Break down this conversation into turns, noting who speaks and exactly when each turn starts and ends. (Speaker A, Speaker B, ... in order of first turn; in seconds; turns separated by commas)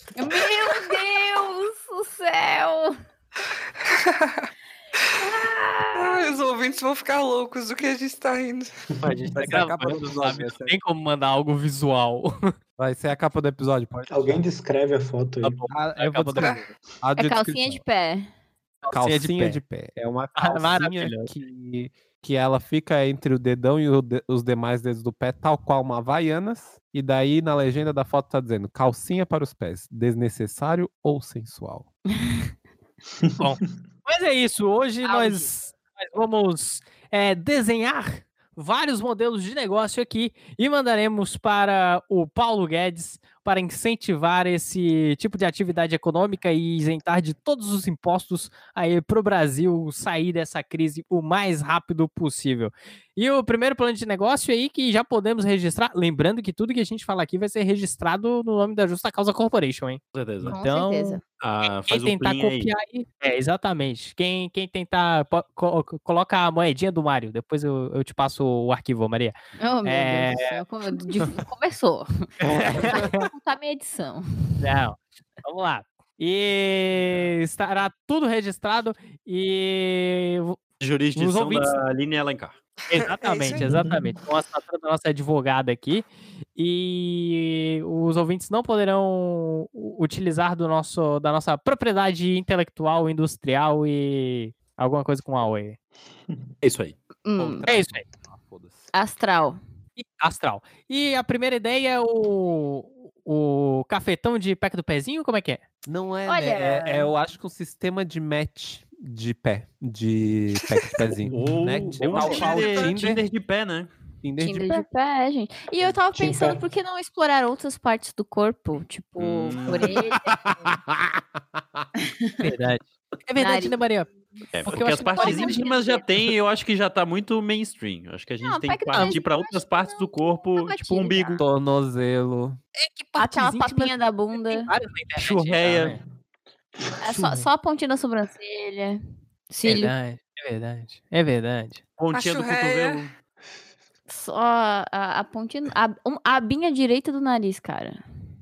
Speaker A: 0.1-2.9, Speaker B: 3.9-4.4, Speaker A: 5.2-6.2, Speaker B: 5.9-8.7, Speaker C: 9.0-12.3, Speaker D: 9.0-9.3, Speaker E: 9.3-10.8, Speaker E: 12.8-14.4, Speaker D: 14.1-15.6, Speaker C: 15.4-16.7, Speaker E: 15.7-17.8, Speaker B: 16.4-16.6, Speaker A: 17.2-18.3, Speaker C: 18.8-19.6, Speaker E: 18.9-31.9, Speaker C: 20.4-21.3, Speaker A: 32.1-32.4, Speaker C: 33.4-61.2, Speaker A: 35.0-35.5, Speaker F: 60.1-60.6, Speaker A: 60.4-61.2, Speaker F: 61.4-62.7, Speaker C: 61.9-70.6, Speaker A: 69.6-74.7, Speaker C: 72.4-73.2, Speaker C: 74.6-80.6, Speaker F: 80.8-82.6, Speaker C: 81.1-81.8, Speaker C: 82.9-95.8, Speaker B: 83.0-83.7, Speaker D: 83.7-84.0, Speaker F: 96.6-97.0, Speaker A: 97.2-97.7, Speaker E: 97.4-98.9, Speaker C: 97.7-98.0, Speaker A: 98.9-99.6, Speaker C: 100.0-105.6, Speaker E: 105.8-113.2, Speaker A: 106.3-107.1, Speaker F: 111.3-113.9, Speaker C: 112.2-112.9, Speaker E: 114.2-114.8, Speaker A: 114.4-120.6, Speaker D: 116.1-116.6, Speaker F: 119.2-120.0, Speaker E: 120.5-120.8, Speaker A: 122.0-122.5, Speaker C: 122.4-124.1, Speaker A: 123.4-123.8, Speaker F: 124.5-131.4, Speaker C: 124.6-125.7, Speaker A: 124.7-126.0, Speaker A: 128.4-131.4, Speaker E: 131.4-132.6, Speaker C: 132.8-136.0, Speaker A: 133.2-134.7, Speaker F: 135.2-135.9, Speaker A: 137.0-139.9, Speaker C: 139.6-141.8, Speaker F: 142.0-143.1, Speaker B: 142.1-143.0, Speaker A: 144.1-148.0